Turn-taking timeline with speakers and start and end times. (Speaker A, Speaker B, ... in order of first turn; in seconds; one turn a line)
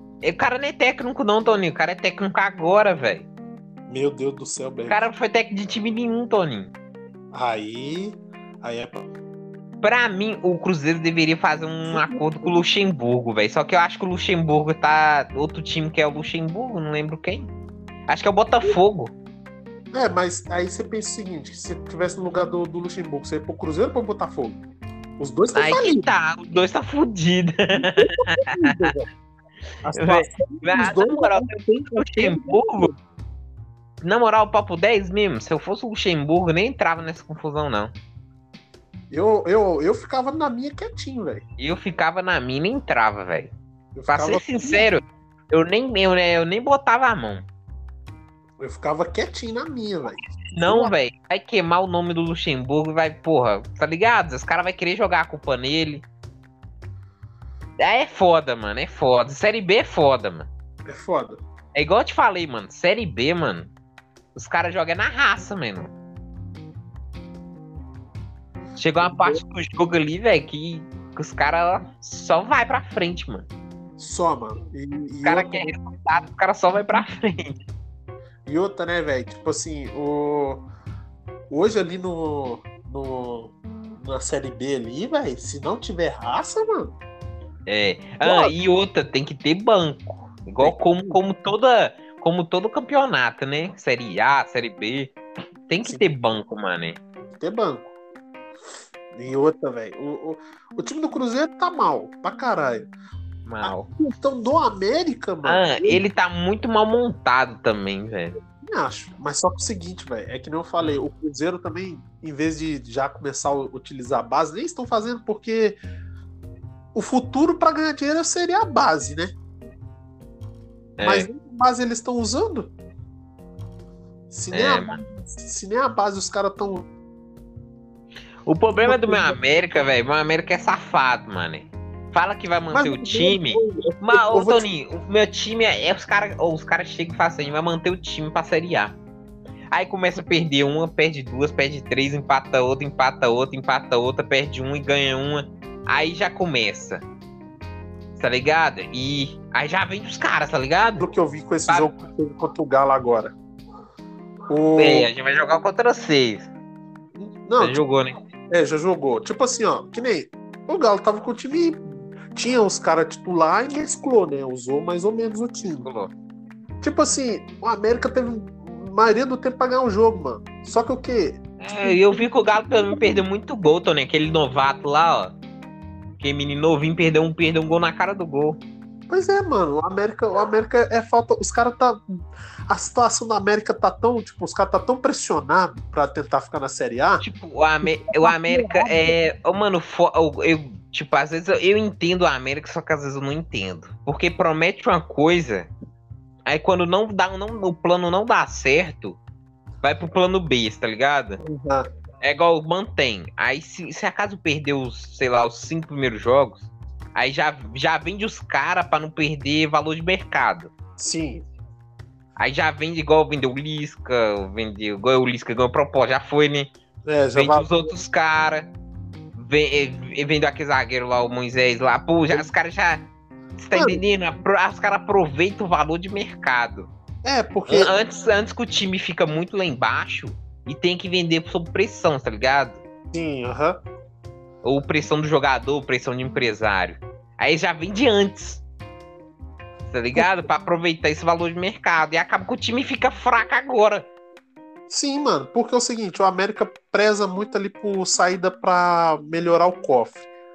Speaker A: 0.2-3.3
Speaker B: 3.9-5.0
Speaker A: 4.9-6.7
Speaker B: 7.3-9.1
Speaker A: 9.8-17.5
Speaker B: 11.9-12.6
Speaker A: 18.1-19.1
Speaker B: 19.9-24.6
Speaker B: 25.2-26.1
Speaker A: 25.5-28.9
Speaker B: 27.7-29.0
Speaker B: 29.8-32.9
Speaker A: 29.9-32.9
Speaker A: 34.0-37.9
Speaker B: 39.1-41.4
Speaker A: 41.6-43.5
Speaker B: 43.9-44.9
Speaker A: 44.1-47.5
Speaker B: 48.6-50.9
Speaker A: 50.5-56.1
Speaker A: 57.8-60.5
Speaker B: 60.9-61.4
Speaker A: 61.7-63.7
Speaker A: 64.3-65.9
Speaker A: 68.8-73.5
Speaker B: 69.0-69.4
Speaker B: 74.0-75.7
Speaker A: 75.2-77.6
Speaker B: 78.5-80.7
Speaker B: 81.5-86.9
Speaker A: 87.7-95.1
Speaker B: 88.2-88.5
Speaker B: 90.6-91.2
Speaker A: 95.7-97.0
Speaker B: 95.8-96.1
Speaker B: 97.2-97.9
Speaker B: 99.1-102.9
Speaker A: 103.4-103.9
Speaker B: 103.6-106.0
Speaker A: 105.4-108.4
Speaker B: 108.6-115.8
Speaker A: 110.8-111.0
Speaker B: 116.9-119.3
Speaker A: 121.0-121.3
Speaker B: 121.0-122.7
Speaker B: 124.3-126.9
Speaker A: 124.5-125.0
Speaker A: 128.4-139.0
Speaker B: 128.8-129.4
Speaker B: 132.7-134.7
Speaker A: 139.7-147.0
Speaker A: 148.2-151.1
Speaker B: 151.0-153.3
Speaker B: 154.5-155.1
Speaker A: 154.8-156.5
Speaker B: 157.1-157.8
Speaker A: 157.6-158.2
Speaker B: 158.5-161.8
Speaker B: 162.3-165.9
Speaker A: 165.8-166.1
Speaker B: 166.8-173.2
Speaker A: 171.6-175.4
Speaker A: 176.2-178.6
Speaker B: 179.1-182.0
Speaker B: 182.7-187.2
Speaker A: 187.2-195.7
Speaker B: 187.8-189.2
Speaker A: 196.4-199.2
Speaker A: 199.8-201.4
Speaker B: 201.4-201.8
Speaker A: 202.2-210.7
Speaker B: 211.0-211.4
Speaker A: 212.4-216.7
Speaker B: 217.0-217.9
Speaker A: 217.3-218.7
Speaker A: 219.3-226.9
Speaker B: 223.7-224.0
Speaker B: 227.2-227.9
Speaker A: 227.7-232.8
Speaker B: 233.1-233.8
Speaker A: 234.6-238.6
Speaker A: 239.9-244.1
Speaker B: 240.1-240.5
Speaker B: 244.9-250.3